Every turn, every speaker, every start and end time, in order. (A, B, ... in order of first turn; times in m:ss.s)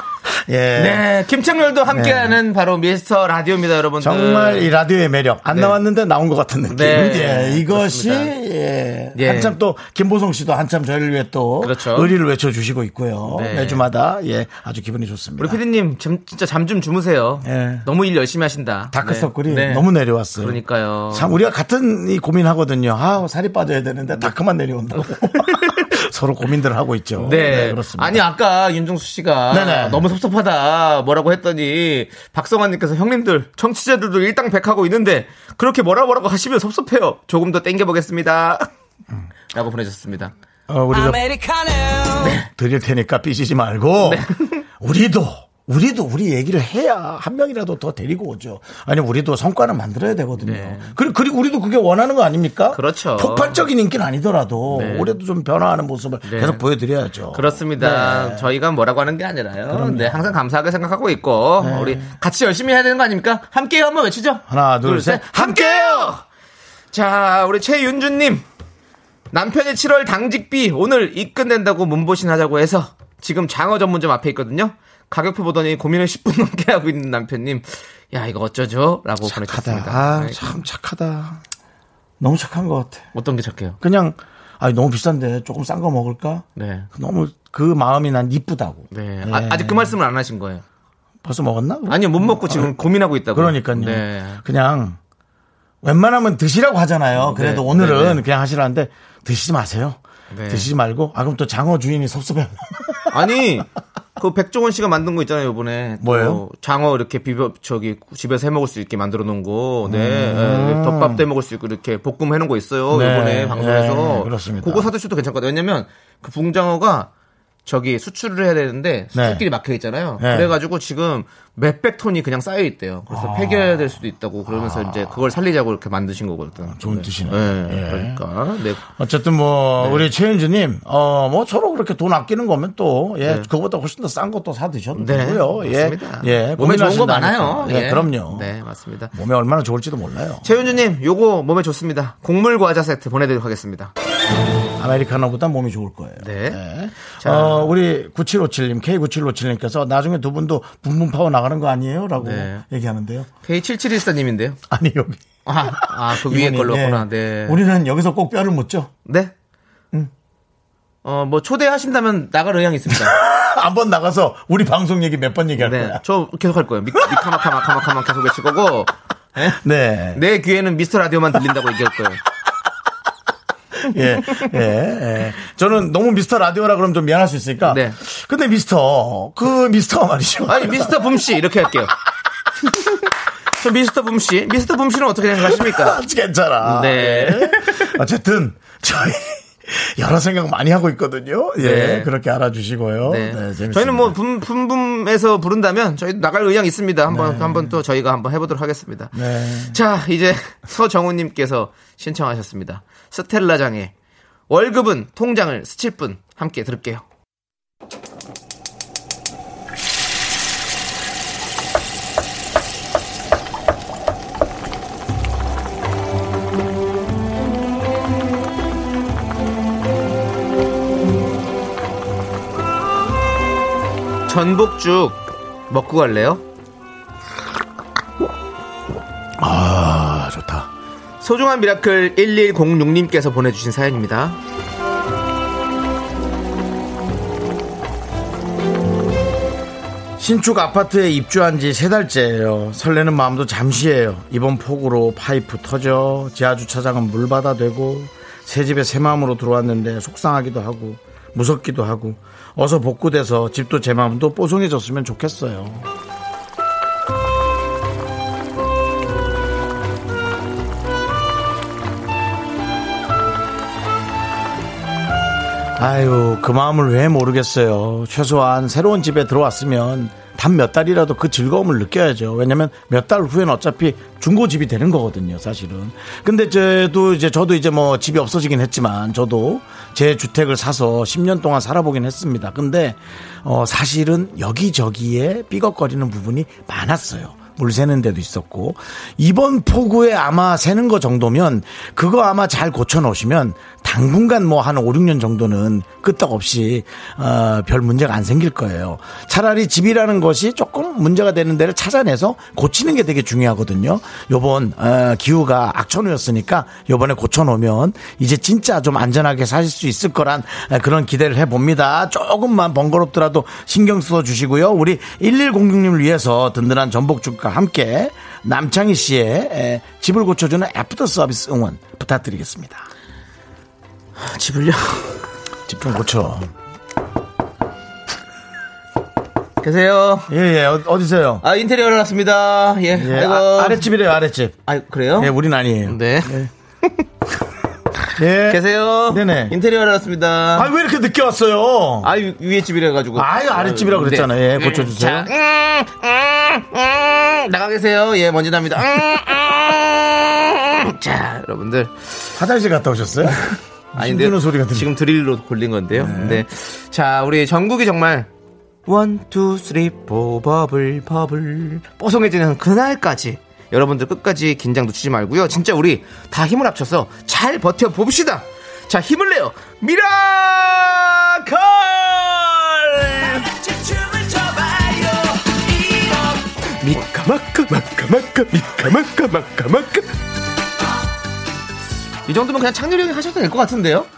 0:00.3-0:01.0 A
0:00.8-0:04.7 B
0:01.9-0:02.4 A
0:04.0-0:15.6 A
0:05.5-0:05.8 B
0:06.7-0:08.3 B
0:09.1-0:09.6 B
0:11.6-0:12.2 B
0:13.3-0:13.8 B
0:15.4-0:21.3 B
0:17.4-0:17.8 A
0:18.9-0:28.2 A
0:25.0-0:25.9 B
0:27.2-0:38.7 B
0:29.5-0:30.0 A
0:39.5-0:40.3 B
0:40.7-0:41.4 A
0:42.2-0:42.5 B
0:42.2-0:44.2 A
0:44.0-0:44.6 B
0:44.8-0:58.4 A
0:50.4-0:51.0 B
0:52.7-0:53.6 B
0:54.7-0:55.1 B
0:56.2-0:56.6 B
0:57.3-1:06.2 B
0:59.7-1:00.3 A
1:01.6-1:02.1 A
1:04.5-1:06.2 A
1:06.9-1:08.4 B
1:09.3-1:20.4 B
1:19.2-1:21.4 A
1:22.2-1:23.0 A
1:23.1-1:23.8 B
1:23.8-1:29.9 A
1:26.6-1:26.9 B
1:28.9-1:30.6 B
1:31.2-1:32.8 A
1:31.9-1:34.4 B
1:33.3-1:35.0 A
1:35.8-1:43.1 A
1:37.2-1:38.2 B
1:40.3-1:40.7 B
1:43.1-1:57.1 B
1:46.0-1:46.4 A
1:49.8-1:51.2 A
1:52.9-1:54.9 A
1:57.6-2:08.8 B
1:59.1-1:59.5 A
2:00.2-2:00.5 A
2:03.1-2:05.3 A
2:06.7-2:08.2 A
2:08.9-2:18.5 A
2:09.8-2:10.1 B
2:13.2-2:13.5 B
2:14.9-2:19.1 B
2:19.1-2:20.5 A
2:20.4-2:23.9 B
2:24.8-2:33.3 A
2:26.2-2:27.7 B
2:32.2-2:32.6 B
2:33.4-2:34.6 B
2:34.7-2:38.9 A
2:35.4-2:37.6 B
2:39.0-2:39.3 B
2:41.0-2:43.2 B
2:42.9-2:46.0 A
2:45.6-2:49.6 B
2:47.0-2:47.3 A
2:49.5-2:50.2 A
2:50.1-2:52.2 B
2:53.8-3:00.9 A
2:57.6-2:58.0 B
3:00.5-3:01.9 B
3:03.6-3:06.0 B
3:05.4-3:14.2 A
3:06.6-3:07.9 B
3:11.6-3:12.1 B
3:13.0-3:23.9 B
3:17.1-3:17.8 A
3:19.1-3:19.8 A
3:24.5-3:27.0 B
3:44.3-3:46.4 B
3:49.4-3:50.7 A
3:51.2-3:54.4 B
4:00.2-4:15.9 A
4:25.8-5:22.9 A
5:24.2-5:25.2 B
5:25.7-5:26.5 A
5:29.6-5:30.3 B
5:30.3-5:31.4 A
5:31.4-5:33.9 B
5:32.9-5:34.6 A
5:34.6-5:35.3 B
5:35.2-5:36.5 A
5:35.8-5:36.3 B
5:38.2-5:39.6 A
5:38.5-5:40.7 B
5:40.5-5:42.1 A
5:42.0-5:52.2 B
5:43.1-5:45.3 A
5:52.4-5:54.9 A
5:54.0-5:58.3 B
5:55.9-5:56.4 A
5:58.8-6:20.1 B
6:22.3-6:24.1 B